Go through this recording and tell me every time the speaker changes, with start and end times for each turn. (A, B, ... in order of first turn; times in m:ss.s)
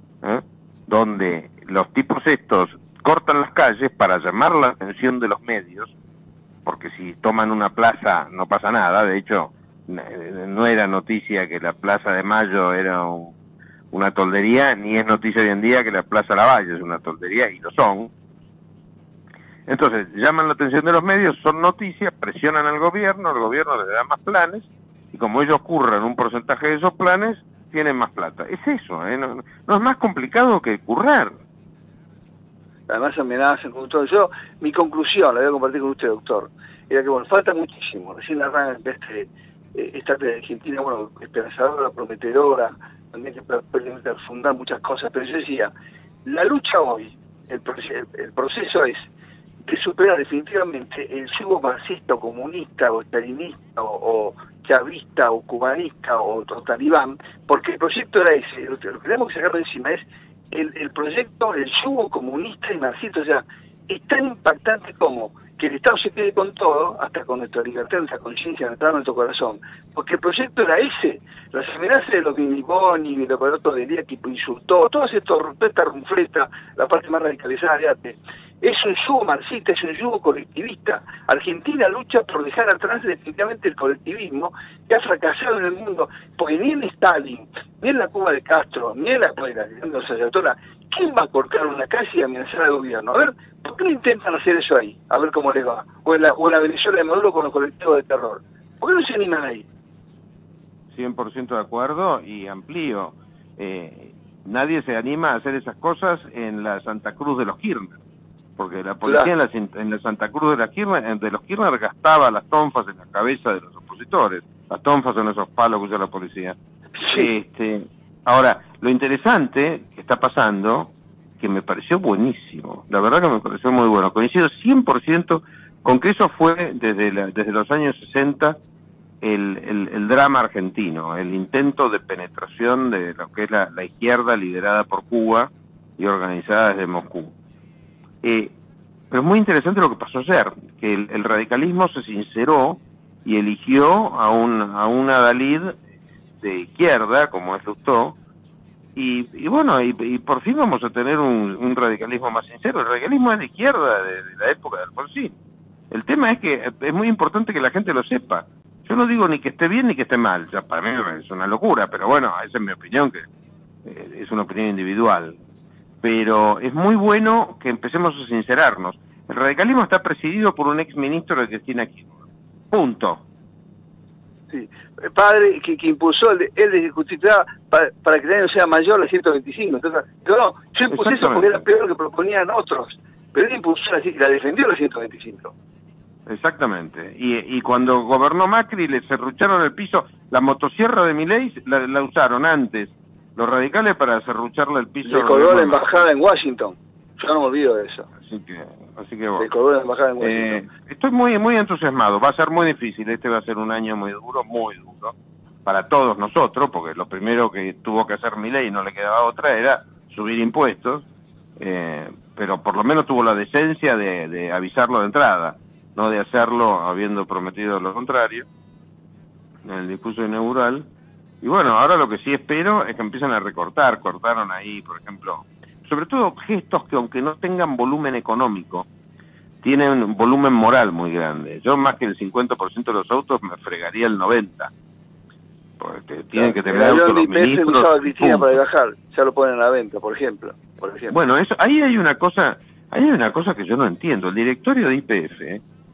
0:00.2-0:05.9 A
0:06.6-0:13.3 A
0:13.9-0:18.1 A
0:19.7-0:31.3 A
0:32.9-0:45.7 B
0:46.2-0:49.1 B
0:49.6-1:39.7 B
1:40.9-1:48.0 A
1:48.6-1:56.6 A
1:49.0-1:49.3 B
1:57.0-1:57.3 B
1:57.1-2:08.6 A
2:09.2-2:17.4 A
2:18.2-2:18.5 A
2:19.1-2:25.8 A
2:26.4-2:28.2 A
2:29.0-2:35.4 A
2:35.9-2:43.2 A
2:43.8-2:45.4 A
2:46.0-2:52.1 A
2:52.7-2:53.2 A
2:54.5-3:05.5 B
3:00.9-3:01.6 A
3:06.3-3:15.9 A
3:15.0-3:18.1 B
3:18.2-3:19.5 A
3:19.4-3:20.6 B
3:20.2-3:31.1 A
3:31.6-3:38.5 A
3:39.6-3:40.9 A
3:41.4-3:48.9 A
3:49.6-3:54.7 A
3:55.8-3:58.6 A
3:56.3-4:01.2 B
4:01.1-4:05.6 A